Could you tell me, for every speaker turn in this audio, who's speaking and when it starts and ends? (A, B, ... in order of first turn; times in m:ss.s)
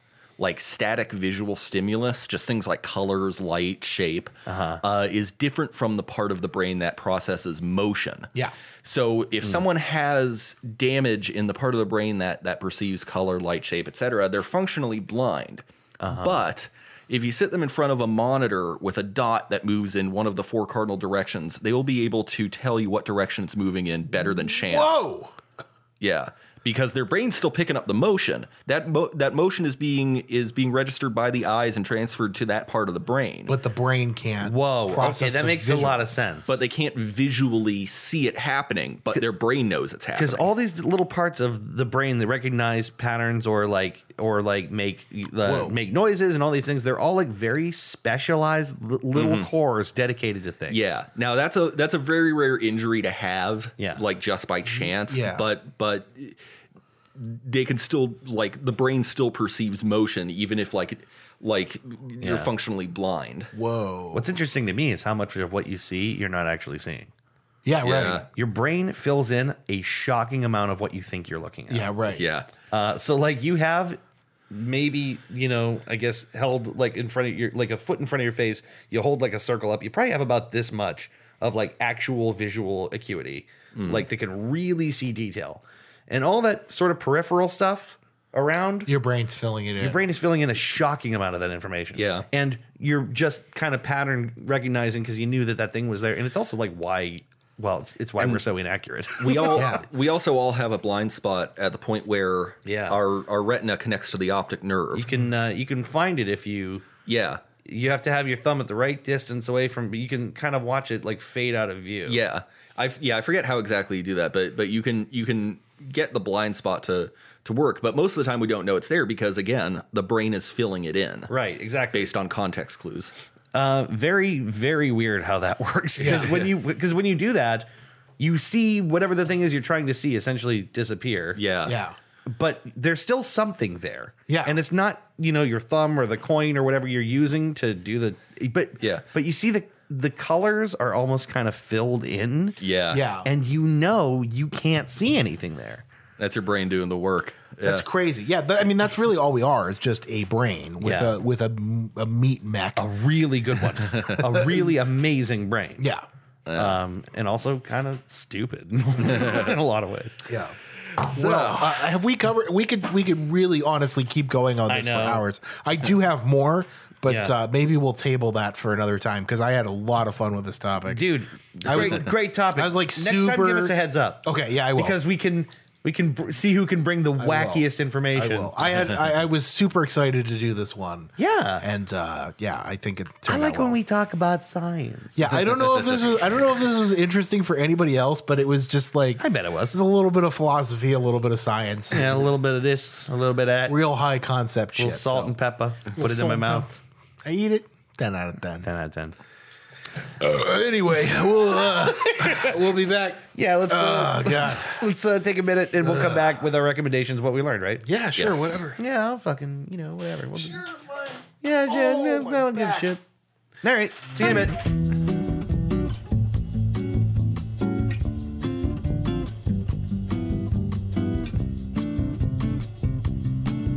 0:00.4-0:08.3 A
0:04.5-0:04.8 B
0:08.8-0:25.0 A
0:16.0-0:16.4 B
0:24.6-0:25.4 C
0:26.0-0:33.6 A
0:33.5-0:36.0 C
0:34.4-0:36.6 B
0:36.5-0:40.5 A
0:40.2-0:51.0 B
0:45.4-0:45.7 C
0:49.2-0:49.5 A
0:50.7-0:56.4 A
0:54.8-0:55.4 C
0:57.2-1:03.5 A
1:02.2-1:02.5 B
1:03.5-1:04.3 C
1:04.1-1:07.1 B
1:07.6-1:08.3 C
1:07.8-1:08.3 A
1:08.3-1:12.0 B
1:11.7-1:12.2 C
1:12.1-1:12.5 A
1:12.7-1:14.0 B
1:14.5-1:28.9 B
1:23.8-1:24.0 A
1:28.9-1:30.0 C
1:29.8-1:39.7 B
1:32.0-1:32.2 A
1:39.2-1:45.1 A
1:39.5-1:39.9 C
1:42.6-1:43.0 B
1:44.9-1:46.9 B
1:47.1-1:47.4 A
1:47.6-1:52.2 B
1:52.1-2:01.3 A
2:01.3-2:02.1 B
2:01.9-2:03.1 A
2:03.5-2:07.7 B
2:06.0-2:06.5 C
2:08.2-2:11.4 B
2:11.4-2:11.8 A
2:11.6-2:12.0 C
2:12.3-2:22.6 B
2:14.3-2:14.6 C
2:18.8-2:19.0 A
2:22.6-2:23.0 A
2:22.9-2:23.3 C
2:23.2-2:25.8 B
2:26.2-2:27.8 A
2:27.6-2:32.8 C
2:30.8-2:31.1 B
2:32.8-2:35.8 B
2:34.2-2:34.7 C
2:35.8-2:36.0 C
2:36.4-2:36.8 A
2:36.5-2:40.3 B
2:40.3-2:51.0 C
2:41.0-2:41.8 A
2:44.7-2:45.2 B
2:47.1-2:47.3 B
2:50.9-2:58.9 B
2:51.6-2:55.0 C
2:57.2-3:03.8 C
3:01.2-3:01.6 B
3:03.3-3:05.7 B
3:05.2-3:12.2 C
3:09.2-3:09.8 B
3:11.9-3:13.8 B
3:13.7-3:15.4 C
3:14.8-3:16.8 B
3:16.0-3:16.7 C
3:17.2-3:18.7 C
3:18.6-3:19.2 B
3:20.2-3:24.8 C
3:21.9-3:22.6 B
3:23.3-3:27.8 B
3:25.8-3:26.3 C
3:27.8-3:28.8 C
3:28.2-3:28.6 A
3:28.8-3:30.6 B
3:30.4-3:32.9 C
3:31.4-3:33.0 B
3:33.6-3:34.6 B